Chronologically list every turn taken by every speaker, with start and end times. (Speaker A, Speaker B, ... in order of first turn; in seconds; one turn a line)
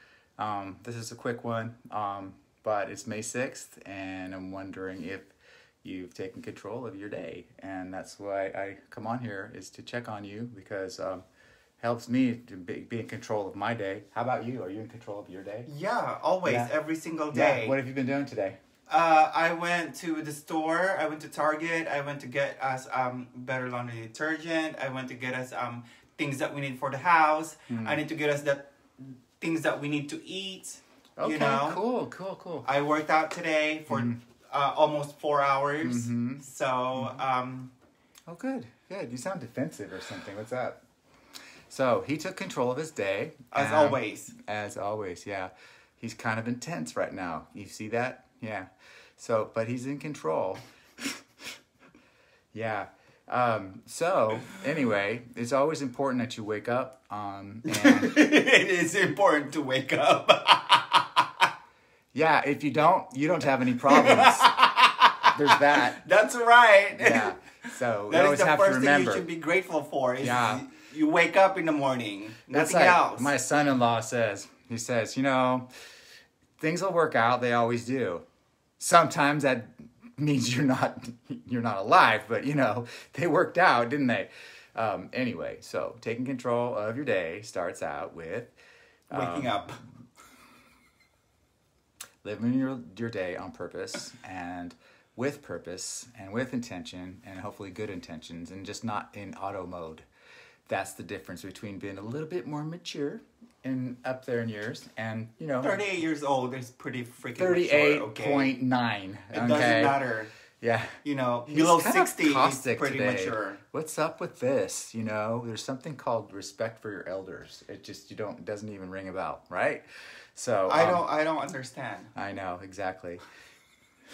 Speaker A: 0.4-5.3
Speaker A: 5.8-11.2
Speaker A: 11.8-15.7
Speaker B: 15.7-17.8
Speaker A: 16.4-16.7
Speaker A: 17.3-18.6
Speaker B: 18.9-31.8
Speaker A: 27.7-28.0
Speaker A: 31.2-32.7
Speaker B: 32.6-37.7
Speaker A: 33.9-34.1
Speaker A: 35.8-36.4
Speaker A: 37.0-37.2
Speaker A: 38.3-40.8
Speaker A: 41.7-51.1
Speaker B: 43.5-44.3
Speaker A: 52.5-58.2
Speaker B: 57.6-61.4
Speaker A: 62.1-64.5
Speaker B: 63.9-73.3
Speaker A: 65.3-66.0
Speaker A: 66.9-69.3
Speaker A: 70.2-70.7
Speaker A: 72.5-75.7
Speaker A: 76.6-78.2
Speaker A: 78.8-88.5
Speaker A: 89.1-89.7
Speaker B: 89.1-89.8
Speaker A: 92.2-100.1
Speaker A: 100.7-105.8
Speaker B: 105.6-108.5
Speaker A: 107.4-110.0
Speaker B: 109.3-110.3
Speaker A: 110.6-121.0
Speaker B: 111.0-113.6
Speaker B: 120.7-122.1
Speaker A: 122.2-123.2